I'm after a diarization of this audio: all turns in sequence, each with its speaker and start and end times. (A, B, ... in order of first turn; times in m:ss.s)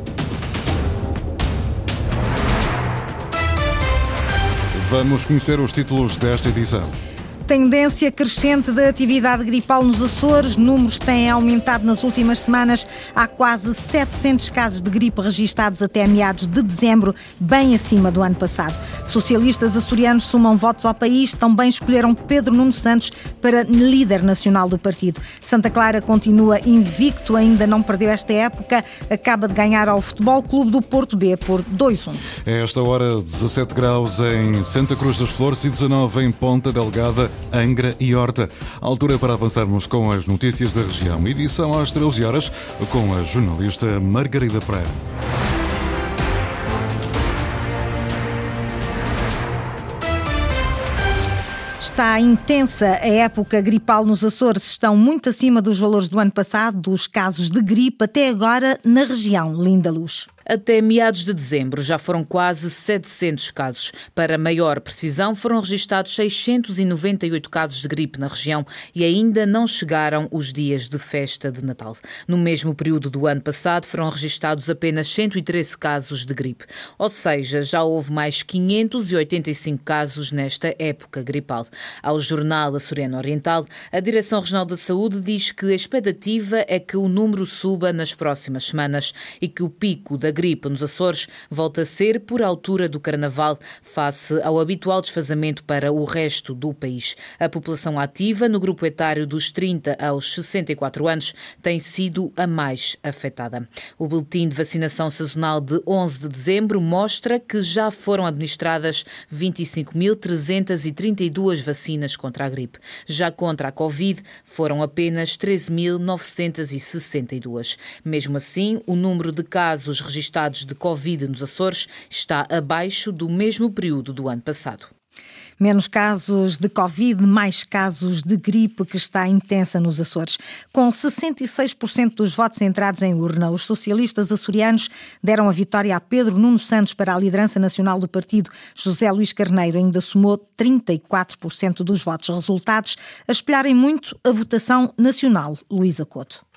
0:04.8-0:06.9 A
0:07.5-0:32.2 B
0:32.4-0:44.9 A
0:51.8-1:00.3 B
1:00.5-2:04.9 C
2:05.6-2:26.4 B